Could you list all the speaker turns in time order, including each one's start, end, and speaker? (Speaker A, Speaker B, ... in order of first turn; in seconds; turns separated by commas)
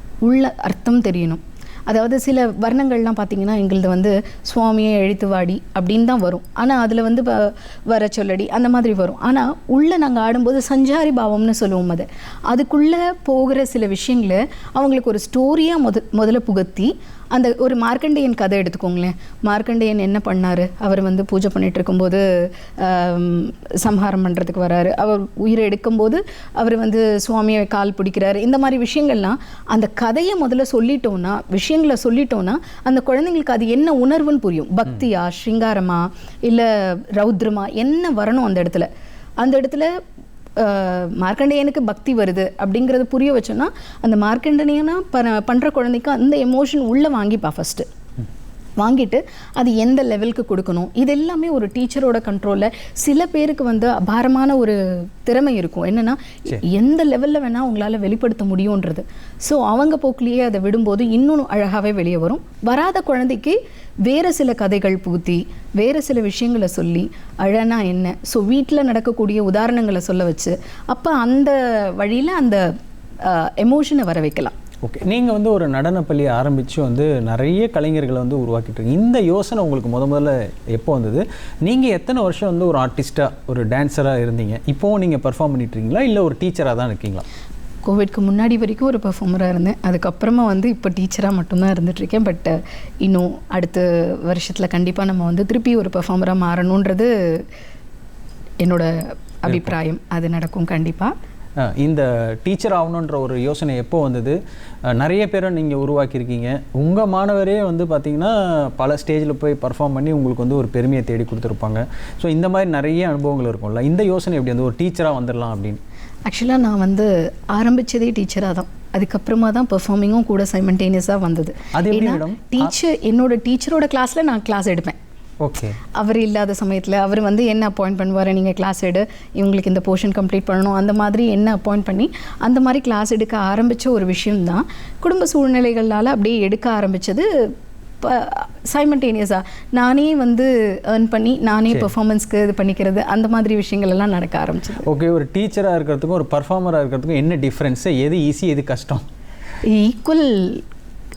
Speaker A: 0.2-38.9, Speaker A: 39.4-39.9, Speaker A: 40.6-47.9, Speaker A: 48.8-72.7, Speaker A: 73.2-74.6, Speaker B: 74.8-87.2, Speaker A: 87.8-97.4, Speaker A: 98.6-101.1, Speaker B: 99.5-99.8, Speaker B: 101.6-115.8, Speaker A: 116.3-125.0, Speaker B: 121.7-122.7, Speaker B: 125.4-125.8, Speaker A: 125.9-144.9, Speaker B: 144.8-149.1, Speaker A: 149.6-150.7